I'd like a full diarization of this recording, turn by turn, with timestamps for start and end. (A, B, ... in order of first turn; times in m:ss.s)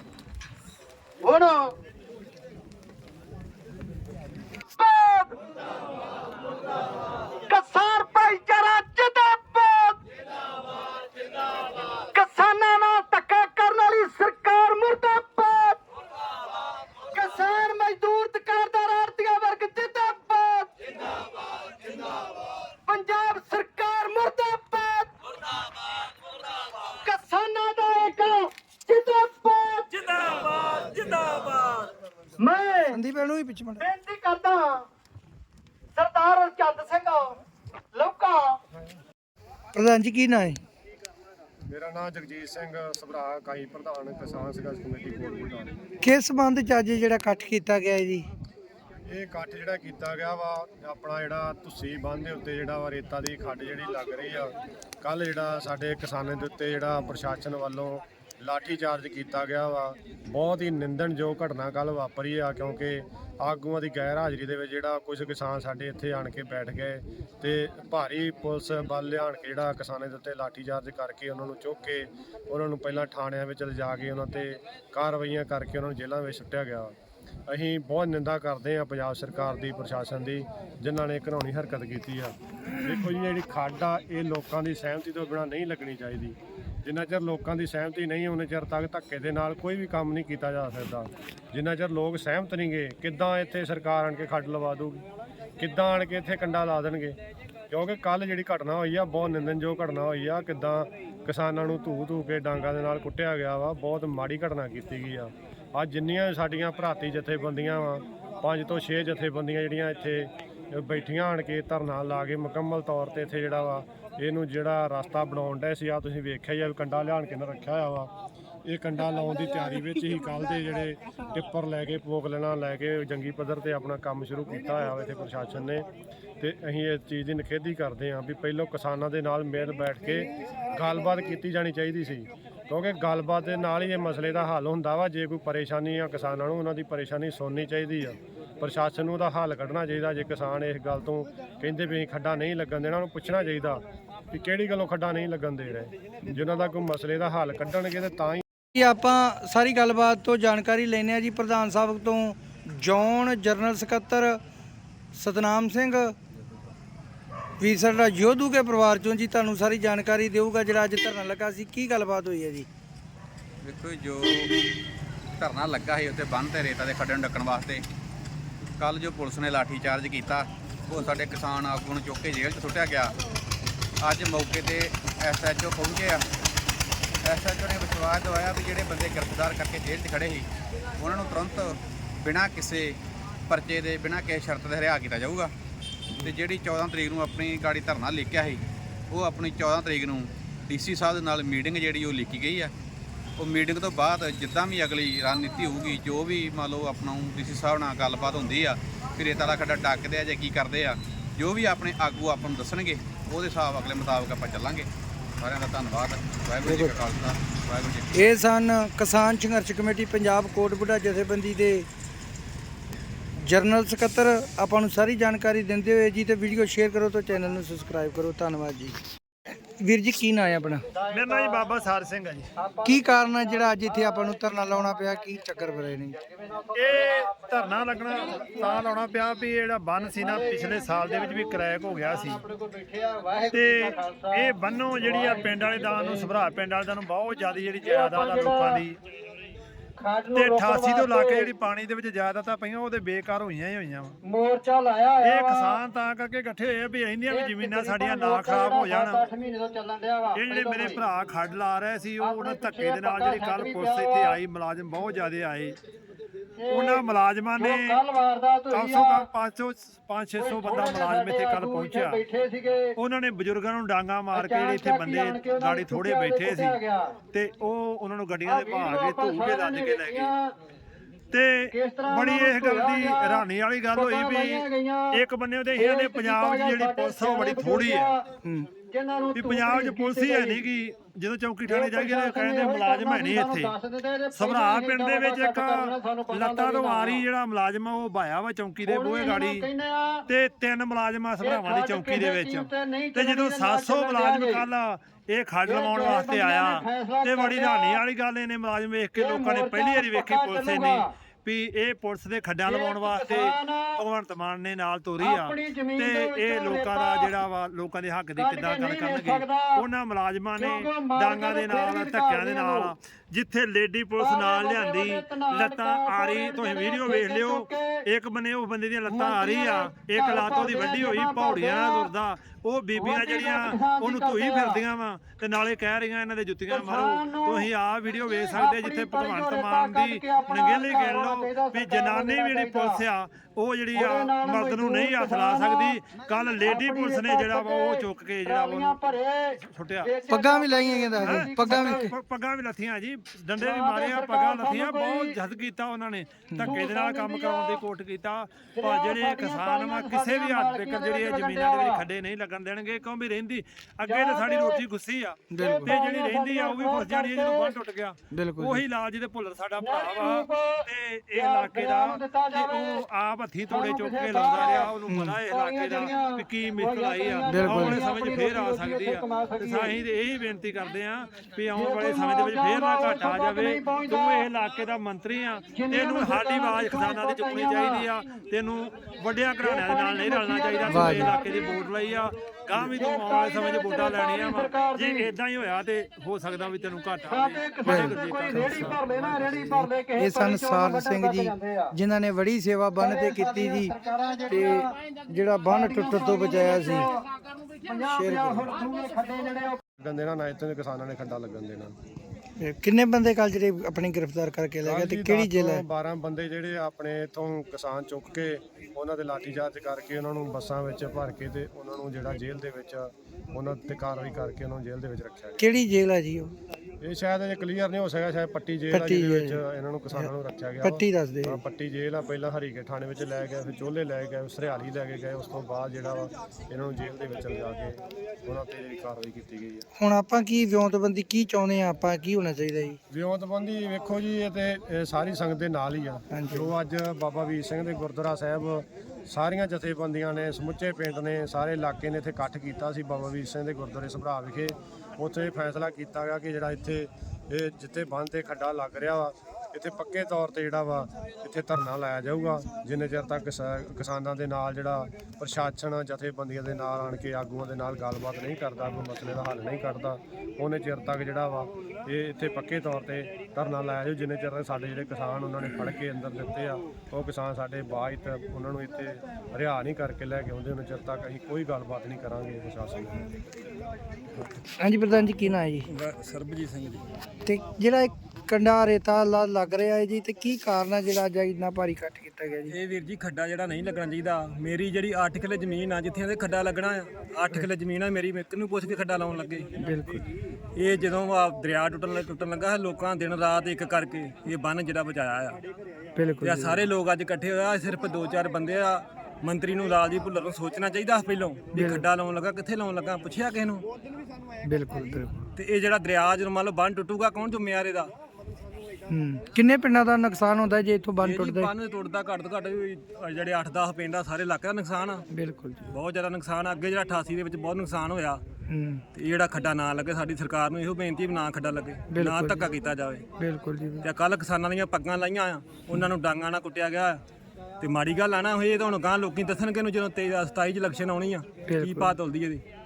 0:01.2-0:01.7 A
0:04.8-0:05.4 A
0:07.5-0:10.0 A
0:12.0-0:15.8 A
0:17.1-0:20.7 A
0:22.8-0:25.1 A
0:26.9-0:29.9 A
0:29.9-0:31.9 B
0:32.4-0:33.0 A
0:32.9-0:33.9 C
0:33.8-0:34.9 A
0:36.0-0:37.4 A
0:37.9-0:38.6 A
0:39.8-0:40.6 C
0:41.7-0:45.8 D
0:46.0-0:48.3 C
0:49.1-1:17.0 D
1:17.5-1:35.1 D
1:35.6-1:37.2 D
1:37.7-1:58.1 D
1:58.7-2:05.9 D
2:06.4-2:23.8 D
2:24.3-2:28.4 D
2:28.7-2:34.4 C
2:35.2-2:36.2 C
2:37.6-2:42.7 C
2:43.6-2:44.5 E
2:45.4-2:47.8 E
2:48.8-2:53.1 E
2:54.0-2:56.2 E
2:57.2-3:00.5 E
3:01.0-3:03.0 E
3:03.5-3:05.5 E
3:06.2-3:08.6 E
3:09.1-3:12.7 E
3:13.4-3:24.9 E
3:25.4-3:28.3 E
3:26.6-3:27.0 C
3:28.1-3:31.9 C
3:33.4-3:39.0 C
3:39.8-3:40.8 C
3:41.0-3:41.7 A
3:41.1-3:42.5 F
3:42.6-3:45.1 A
3:42.8-3:46.2 C
3:46.2-3:48.9 A
3:46.7-3:52.4 F
3:50.0-3:56.3 A
3:53.5-3:59.0 F
3:57.8-3:58.8 A
4:00.0-4:01.5 A
4:00.3-4:04.2 F
4:04.2-4:05.8 A
4:05.2-4:09.2 F
4:07.3-4:11.0 A
4:10.3-4:15.8 F
4:12.2-4:14.4 A
4:16.6-4:17.0 A
4:16.7-4:18.0 F
4:17.6-4:19.3 A
4:18.7-4:22.2 F
4:20.4-4:22.9 A
4:23.0-4:26.8 F
4:24.3-4:27.2 A
4:27.3-4:30.3 F
4:28.5-4:30.5 A
4:31.3-4:38.2 F
4:31.7-4:35.2 A
4:35.8-4:38.2 A
4:38.9-4:40.6 A
4:39.3-4:43.8 F
4:41.7-4:47.2 A
4:44.3-4:49.7 F
4:48.8-4:50.3 A
4:50.3-5:40.1 F
4:51.4-4:54.6 A
4:55.7-4:58.0 A
4:59.2-5:01.1 A
5:02.7-5:04.0 A
5:05.2-5:07.4 A
5:08.4-5:09.8 A
5:10.6-5:12.9 A
5:14.2-5:18.0 A
5:19.1-5:22.1 A
5:23.0-5:24.8 A
5:26.7-5:27.7 A
5:28.5-5:33.0 A
5:34.0-5:36.0 A
5:36.6-5:42.1 A
5:40.3-5:42.0 C
5:41.2-6:29.5 F
5:43.6-5:45.4 A
5:46.5-5:46.8 C
5:46.6-5:47.8 A
5:48.7-5:52.0 A
5:54.1-5:54.8 A
5:55.5-5:56.0 C
5:55.6-5:57.8 A
5:58.3-5:58.8 C
5:59.8-6:03.0 A
6:03.7-6:04.9 A
6:05.1-6:05.4 C
6:05.4-6:10.0 A
6:07.5-6:08.0 C
6:11.7-6:14.5 A
6:15.7-6:18.1 A
6:19.6-6:21.8 A
6:20.8-6:21.4 C
6:22.8-6:25.3 A
6:27.3-6:31.9 A
6:27.8-6:29.0 C
6:29.5-6:33.9 C
6:33.0-6:34.9 A
6:34.5-6:37.1 C
6:35.7-6:37.2 A
6:37.8-6:39.8 A
6:38.1-6:38.7 C
6:40.0-6:42.0 D
6:42.6-6:45.8 C
6:44.8-6:55.7 D
6:55.6-6:56.5 C
6:57.0-7:09.9 D
6:58.9-7:01.6 C
7:10.0-7:13.0 C
7:13.1-7:53.3 D
7:16.3-7:16.7 C
7:54.8-7:55.9 C
7:55.9-7:57.0 B
7:57.5-8:02.8 C
8:02.7-8:09.7 B
8:09.8-8:10.3 C
8:10.8-8:15.6 B
8:16.2-8:16.9 C
8:16.4-8:23.8 B
8:21.7-8:22.1 C
8:24.6-8:25.5 C
8:25.6-8:28.1 B
8:29.1-8:31.7 C
8:31.2-8:35.3 B
8:35.3-8:35.9 C
8:35.9-8:38.4 B
8:38.7-8:39.0 C
8:39.1-8:43.2 B
8:42.1-8:42.8 C
8:43.4-8:44.1 C
8:44.0-8:47.2 B
8:47.8-8:52.6 B
8:51.6-8:52.2 C